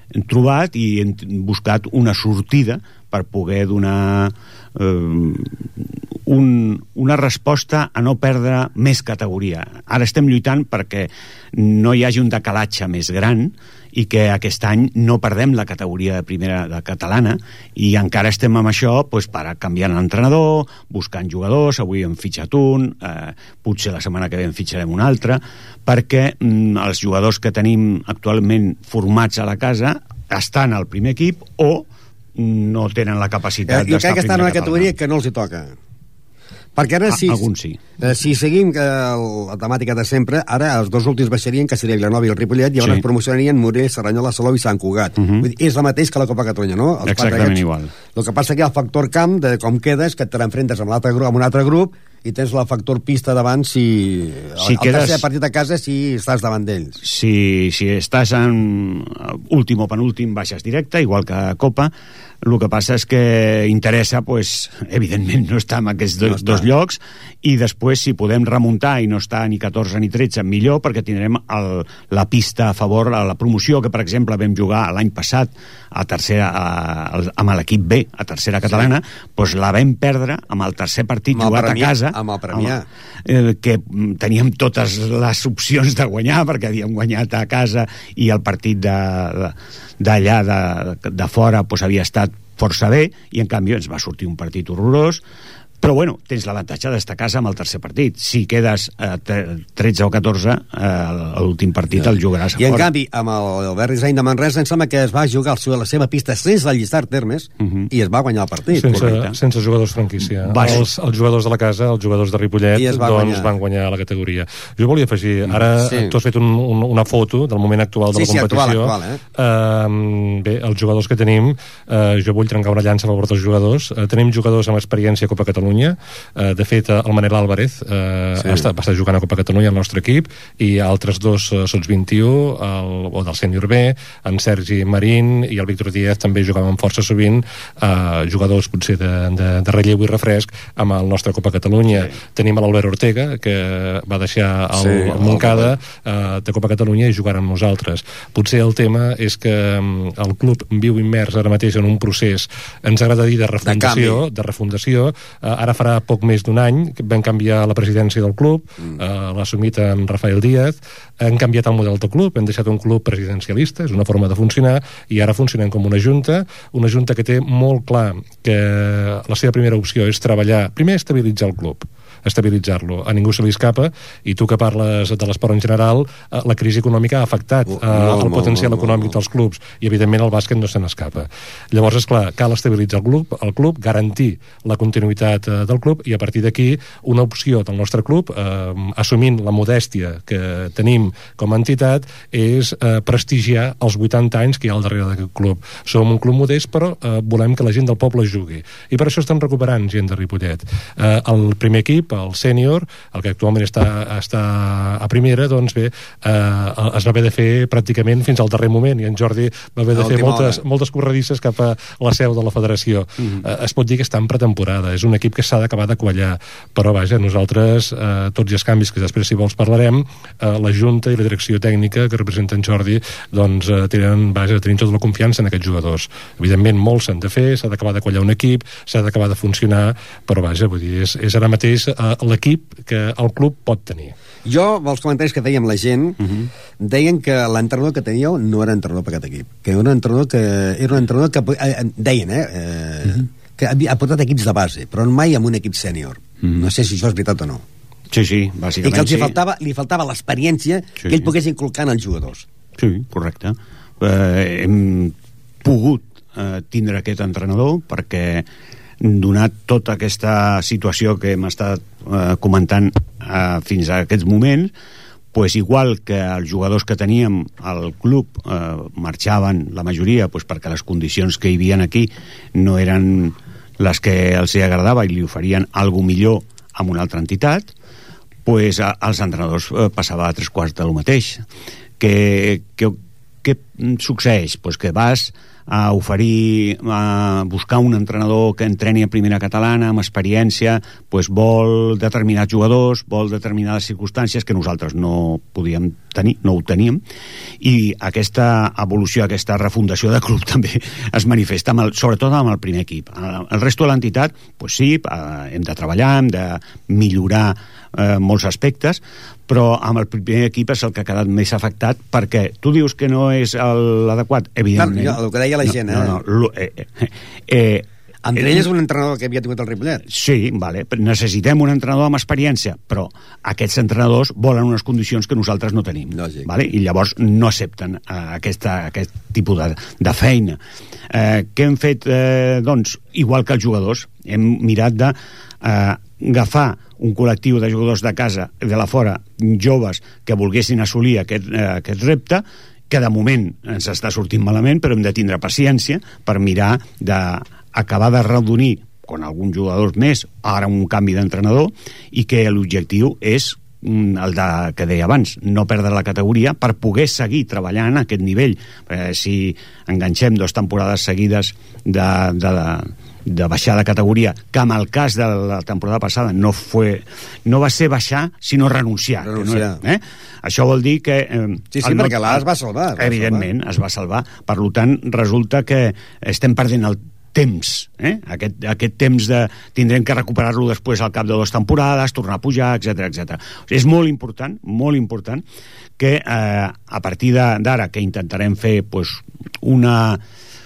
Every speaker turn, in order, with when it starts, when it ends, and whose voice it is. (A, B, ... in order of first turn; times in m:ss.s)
0:00.2-0:31.9 A
0:32.4-0:34.9 A
0:33.7-0:35.8 B
0:36.8-0:37.5 B
0:37.1-0:37.8 A
0:38.0-0:57.0 B
0:45.2-0:45.5 A
0:47.0-0:47.9 A
0:54.6-0:55.2 A
0:57.0-1:01.9 A
1:02.4-1:22.8 A
1:06.2-1:06.7 B
1:21.3-1:22.9 B
1:23.3-1:35.2 A
1:35.8-1:42.9 A
1:42.1-1:49.2 B
1:47.6-1:47.9 A
1:48.7-3:54.1 C
1:48.9-1:49.3 A
1:50.4-1:50.9 A
1:52.7-1:53.5 B
1:55.7-1:56.1 B
1:58.1-1:59.2 B
2:21.9-2:22.2 A
2:24.8-2:25.8 B
2:33.6-2:34.2 B
2:57.7-2:59.1 B
3:29.9-3:30.6 B
3:54.4-3:56.2 B
3:56.2-3:56.5 A
3:56.8-4:07.6 B
4:08.1-4:09.4 A
4:08.8-4:12.5 B
4:11.0-4:11.3 A
4:12.8-4:18.5 A
4:19.0-4:24.7 A
4:25.3-4:37.7 A
4:38.4-4:41.4 A
4:42.0-4:57.0 A
4:57.6-5:18.7 A
5:14.8-5:16.2 B
5:18.2-5:20.0 B
5:20.1-5:30.6 A
5:26.1-5:26.5 B
5:31.1-6:12.4 A
6:09.2-6:09.8 B
6:11.7-6:13.5 B
6:13.0-6:25.4 A
6:26.0-6:30.2 A